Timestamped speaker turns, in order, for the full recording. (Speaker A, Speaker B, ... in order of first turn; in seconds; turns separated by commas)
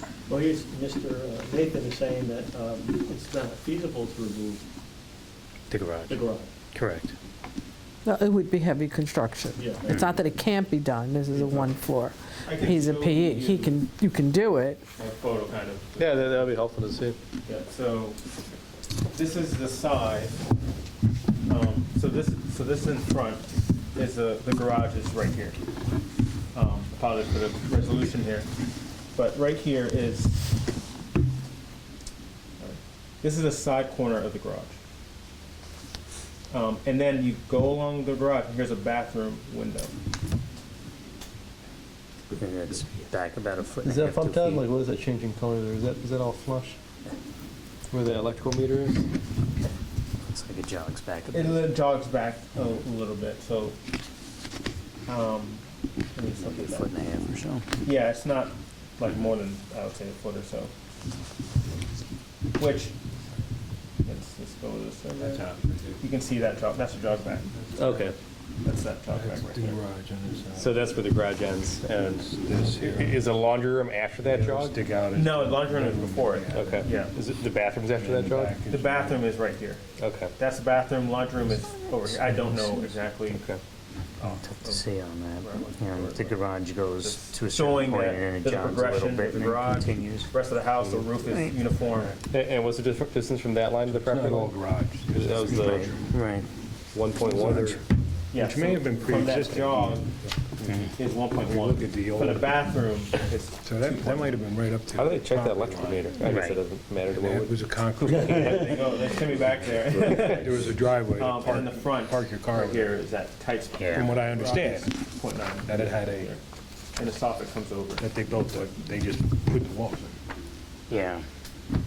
Speaker A: 0.3-4.6, Speaker B: 5.7-7.1, Speaker A: 6.1-6.5, Speaker C: 8.0-14.8, Speaker A: 9.6-10.0, Speaker D: 11.3-11.8, Speaker D: 12.4-13.8, Speaker D: 15.0-16.5, Speaker E: 16.0-17.2, Speaker D: 17.4-18.2, Speaker D: 19.1-20.4, Speaker D: 21.5-25.6, Speaker D: 26.5-28.5, Speaker D: 29.1-30.5, Speaker D: 32.6-34.7, Speaker D: 36.5-39.9, Speaker B: 42.4-44.6, Speaker E: 43.8-46.8, Speaker E: 47.9-49.1, Speaker B: 50.3-51.6, Speaker D: 51.3-53.8, Speaker D: 55.0-56.9, Speaker B: 56.3-57.6, Speaker D: 57.8-60.7, Speaker D: 62.5-63.0, Speaker D: 64.0-65.5, Speaker F: 65.2-65.9, Speaker D: 66.0-68.0, Speaker F: 67.5-68.1, Speaker E: 67.8-68.2, Speaker D: 68.6-69.8, Speaker F: 69.0-70.9, Speaker E: 70.5-74.8, Speaker F: 72.2-73.2, Speaker F: 74.2-77.1, Speaker D: 75.1-77.1, Speaker E: 76.5-78.6, Speaker F: 77.9-79.4, Speaker D: 78.7-79.8, Speaker E: 80.0-80.3, Speaker D: 80.4-83.4, Speaker B: 82.1-82.8, Speaker E: 83.3-83.6, Speaker D: 84.2-84.8, Speaker B: 84.2-90.3, Speaker D: 85.4-86.4, Speaker D: 87.0-92.2, Speaker E: 90.8-91.1, Speaker E: 92.3-95.9, Speaker F: 93.8-96.1, Speaker B: 95.5-96.5, Speaker E: 96.9-97.8, Speaker F: 97.2-102.7, Speaker D: 98.3-100.1, Speaker D: 100.9-104.4, Speaker F: 103.6-106.0, Speaker E: 104.9-107.6, Speaker D: 105.3-106.1, Speaker B: 106.2-106.6, Speaker F: 107.0-112.9, Speaker D: 108.0-116.4, Speaker E: 110.0-110.5, Speaker B: 113.7-114.1, Speaker F: 113.9-116.3, Speaker D: 117.0-118.0, Speaker F: 118.0-120.2, Speaker B: 120.9-121.2